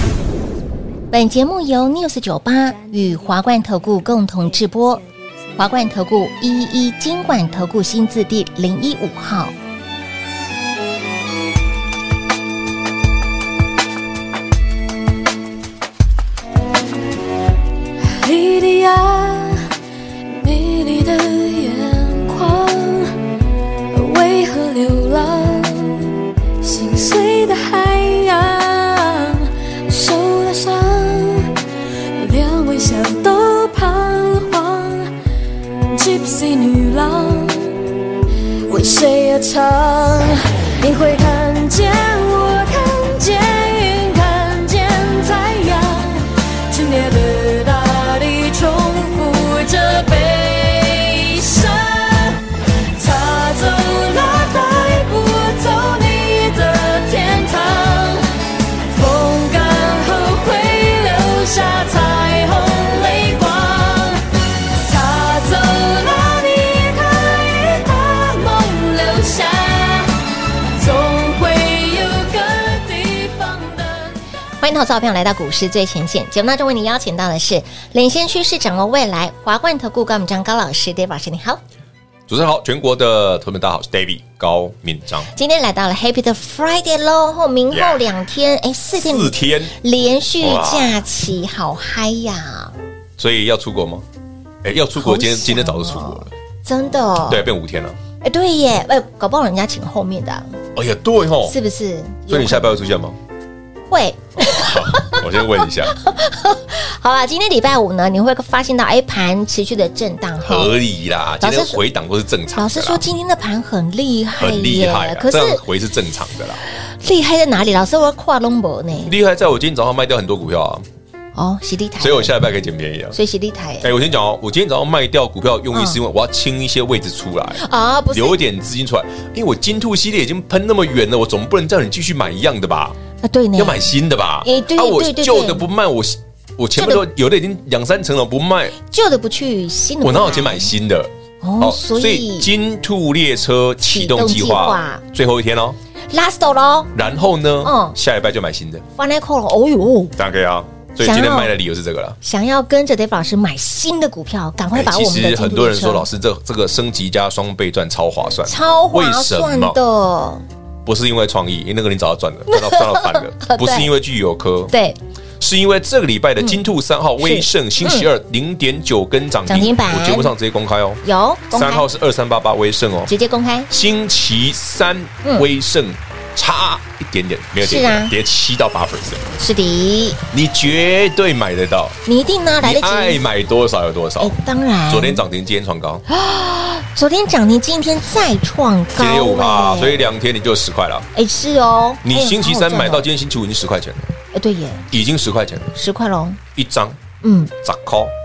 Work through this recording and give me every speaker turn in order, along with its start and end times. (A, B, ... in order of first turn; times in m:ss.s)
0:01.1-0:05.0 A
0:05.6-0:09.5 A
0:18.1-0:19.6 B
0:20.4-0:23.1 B
0:23.9-0:31.5 B
0:32.2-0:35.1 B
0:35.9-0:37.8 B
0:38.7-0:52.4 B
0:53.0-0:58.2 B
0:58.9-1:04.2 B
1:04.8-1:10.1 B
1:10.8-1:14.1 B
1:14.6-1:21.6 A
1:22.3-1:25.3 C
1:25.3-1:32.7 A
1:27.7-1:28.2 C
1:29.0-1:29.7 C
1:30.4-1:31.0 C
1:33.2-1:34.0 C
1:34.6-1:36.3 C
1:35.0-1:37.4 A
1:37.3-1:38.0 C
1:38.2-1:40.6 A
1:40.7-1:41.6 C
1:41.4-1:42.8 A
1:42.3-1:43.2 C
1:43.9-1:50.7 A
1:44.4-1:45.9 C
1:50.4-1:53.0 C
1:51.4-1:51.8 A
1:52.5-1:55.6 A
1:54.4-1:56.6 C
1:56.8-1:59.1 A
1:59.0-2:00.8 C
2:01.3-2:02.4 A
2:02.0-2:03.2 C
2:03.1-2:03.9 A
2:03.8-2:13.0 C
2:05.7-2:06.0 A
2:07.6-2:08.4 A
2:13.2-2:15.6 A
2:13.6-2:18.8 C
2:16.8-2:17.0 A
2:18.8-2:20.7 A
2:20.0-2:25.8 C
2:21.4-2:22.5 A
2:23.8-2:25.0 A
2:26.1-2:26.9 A
2:26.9-2:28.8 C
2:27.6-2:28.0 A
2:29.0-2:30.1 A
2:30.2-2:32.2 C
2:31.0-2:31.5 A
2:32.2-2:36.0 A
2:34.7-2:39.8 C
2:38.4-2:40.4 A
2:40.8-2:44.7 C
2:42.5-2:43.9 A
2:44.7-2:45.0 A
2:45.4-2:53.1 C
2:47.2-2:48.1 A
2:49.5-2:50.3 A
2:51.0-2:51.9 A
2:53.1-2:53.7 A
2:53.7-2:59.3 C
2:57.6-2:58.1 A
2:59.4-3:00.2 A
3:00.3-3:02.0 C
3:02.0-3:03.2 A
3:02.6-3:04.4 C
3:04.2-3:05.2 A
3:04.9-3:06.0 C
3:06.1-3:10.0 A
3:09.0-3:11.1 C
3:11.1-3:13.1 A
3:12.0-3:14.1 C
3:14.3-3:14.8 A
3:14.9-3:15.7 C
3:15.7-3:16.4 A
3:16.5-3:17.0 C
3:17.2-3:17.5 A
3:17.6-3:18.1 C